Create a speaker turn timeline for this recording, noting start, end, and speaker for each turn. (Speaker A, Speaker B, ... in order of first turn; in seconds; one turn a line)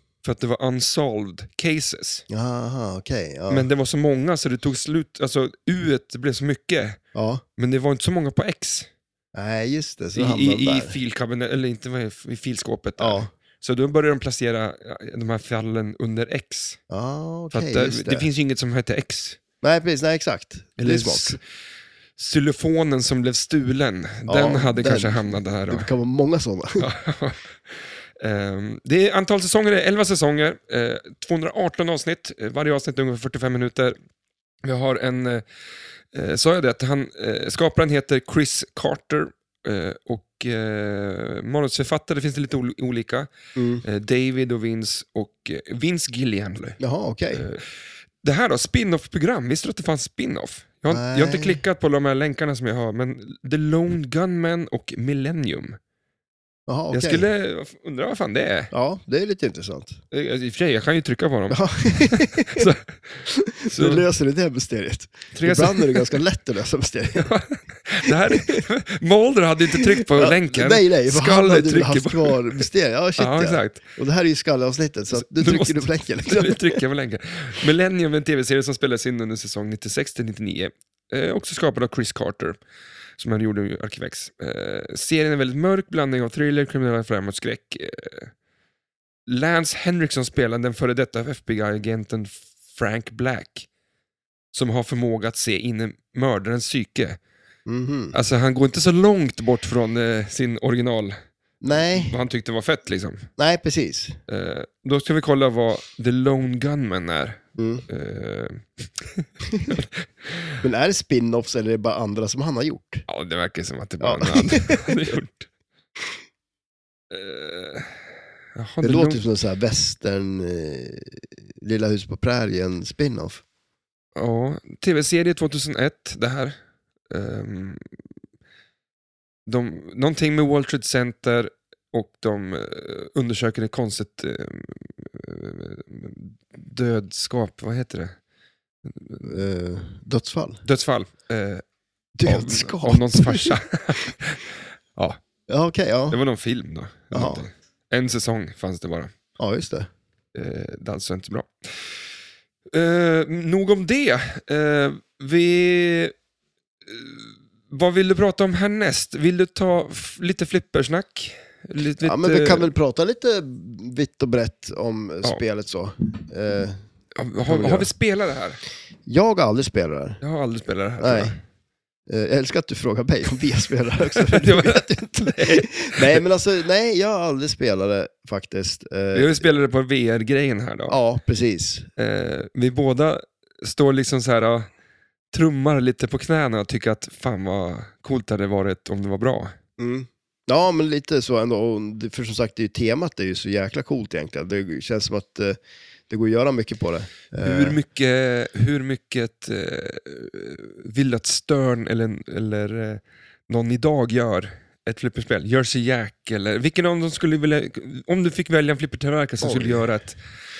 Speaker A: 0.2-2.2
Speaker B: 2.3-3.7
Speaker A: 3.5-7.0
Speaker B: 7.1-7.4
Speaker A: 7.6-8.9
Speaker B: 9.3-10.9
Speaker A: 10.1-16.8
Speaker B: 13.0-13.3
Speaker B: 16.9-18.3
Speaker A: 17.5-19.4
Speaker B: 19.6-21.4
Speaker A: 20.8-21.4
Speaker A: 22.2-25.9
Speaker B: 24.3-26.9
Speaker A: 26.8-34.0
Speaker A: 34.6-35.5
Speaker A: 36.1-43.3
Speaker B: 43.6-43.8
Speaker A: 43.8-46.8
Speaker B: 46.8-47.5
Speaker A: 47.3-47.6
Speaker A: 48.2-55.8
Speaker B: 50.9-51.6
Speaker B: 56.7-57.3
Speaker A: 56.9-58.7
Speaker B: 58.7-60.0
Speaker A: 60.1-64.1
Speaker B: 61.5-62.7
Speaker B: 63.3-67.3
Speaker A: 65.3-66.2
Speaker A: 67.2-72.6
Speaker B: 68.1-68.6
Speaker B: 69.7-76.8
Speaker A: 73.2-73.8
Speaker A: 75.1-82.6
Speaker A: 83.2-88.3
Speaker A: 89.3-93.7
Speaker A: 94.5-97.2
Speaker B: 97.7-98.2
Speaker A: 98.1-101.2
Speaker B: 101.6-102.2
Speaker A: 101.7-103.3
Speaker B: 103.4-104.2
Speaker A: 104.3-110.6
Speaker B: 107.6-107.8
Speaker B: 109.5-109.8
Speaker B: 110.6-113.0
Speaker A: 113.1-115.5
Speaker B: 114.0-114.9
Speaker A: 117.1-118.0
Speaker A: 118.6-119.2
Speaker B: 118.8-123.4
Speaker A: 124.2-126.6
Speaker A: 127.1-127.8
Speaker A: 129.5-138.2
Speaker A: 138.8-139.3
Speaker B: 139.2-140.6
Speaker A: 140.6-141.6
Speaker B: 142.2-143.6
Speaker A: 142.2-145.2
Speaker B: 145.5-146.2
Speaker A: 146.1-149.1
Speaker B: 147.1-147.4
Speaker B: 149.4-149.9
Speaker A: 150.3-151.9
Speaker A: 152.7-156.1
Speaker A: 156.9-162.7
Speaker B: 162.0-166.8
Speaker A: 167.2-168.6
Speaker B: 167.5-167.9
Speaker B: 169.1-170.2
Speaker A: 170.2-171.4
Speaker B: 171.0-171.3
Speaker B: 172.1-179.4
Speaker A: 174.1-176.2
Speaker A: 179.1-181.0
Speaker B: 180.9-181.9
Speaker A: 182.0-184.7
Speaker A: 185.3-189.5
Speaker B: 189.8-197.8
Speaker A: 197.4-210.2
Speaker B: 209.4-209.8